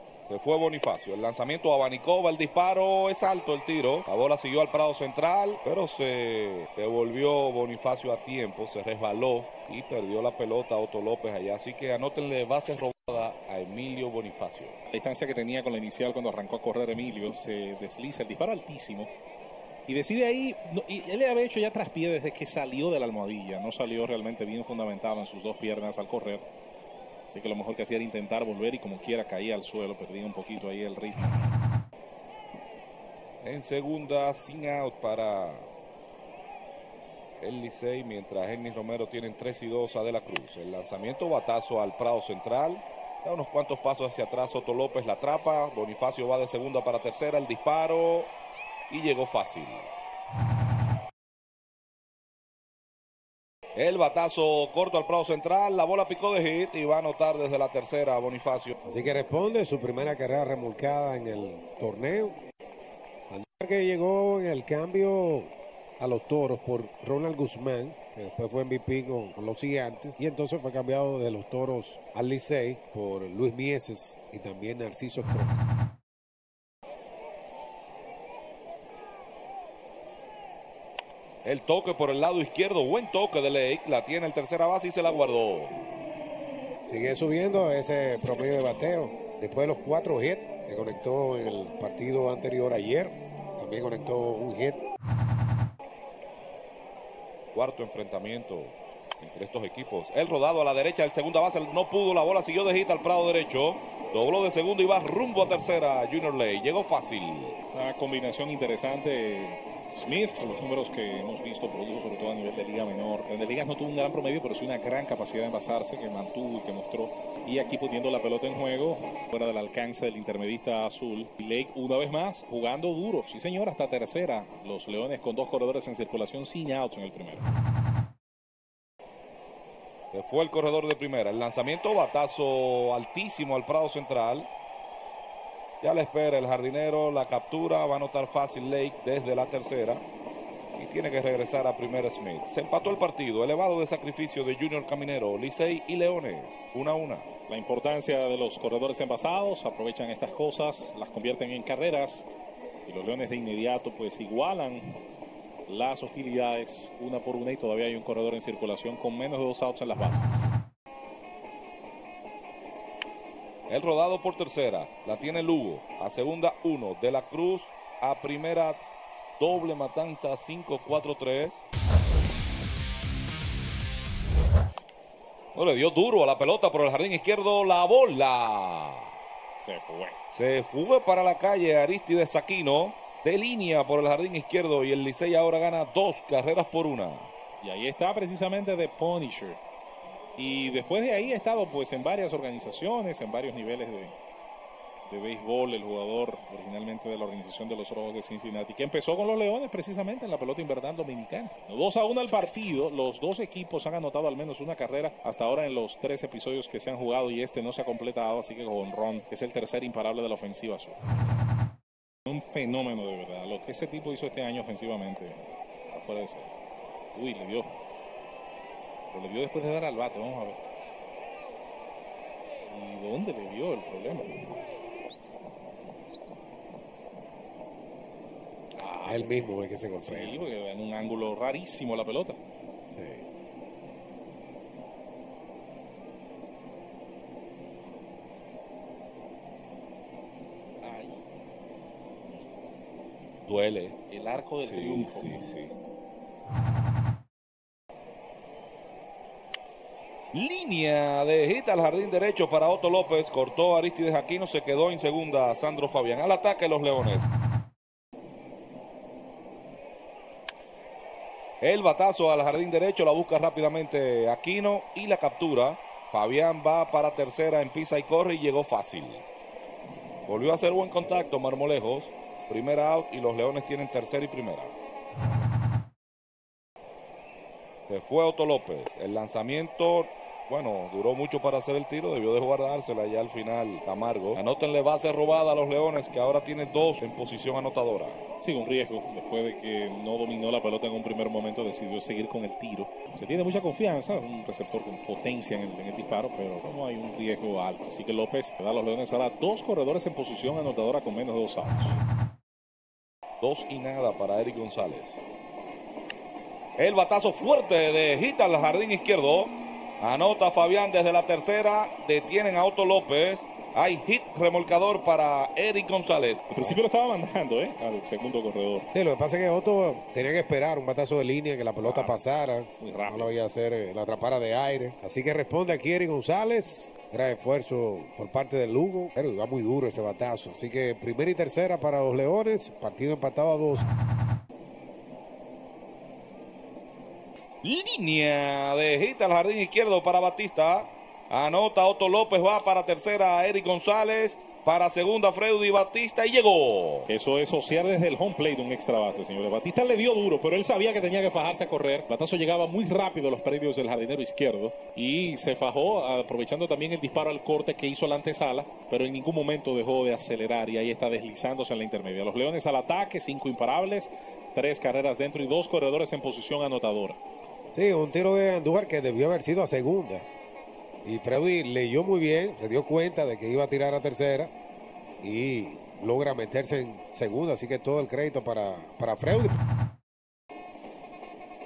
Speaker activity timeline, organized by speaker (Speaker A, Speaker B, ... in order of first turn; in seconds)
Speaker A: 0.2-14.8, 33.4-35.7, 37.4-48.3, 48.9-49.9, 53.7-58.7, 81.4-85.7, 97.5-107.6, 130.1-134.5, 135.8-140.0, 140.7-147.3, 163.7-168.8, 169.4-171.6, 175.5-179.1, 180.3-187.3, 243.5-244.0, 244.6-245.8, 250.3-257.3, 261.6-269.2, 270.2-274.7, 277.8-288.2, 303.4-305.2, 306.8-316.5, 337.6-347.1
Speaker B: 14.9-19.1, 19.9-26.4, 27.3-31.3, 107.7-127.4, 147.5-152.2, 152.8-155.0, 155.7-160.5, 179.6-180.2, 187.6-189.6, 190.4-194.2, 195.1-211.0, 212.2-216.5, 217.1-217.7, 219.1-220.6, 222.7-224.4, 228.8-232.4, 240.8-241.2, 244.1-245.3, 288.4-302.0, 316.5-318.9, 321.8-322.2, 322.8-323.4, 347.1-367.2
Speaker C: 58.8-62.4, 63.3-75.6, 86.9-94.8, 229.0-230.5, 232.9-233.2, 318.9-333.9, 367.7-370.2, 371.0-374.5, 375.2-379.6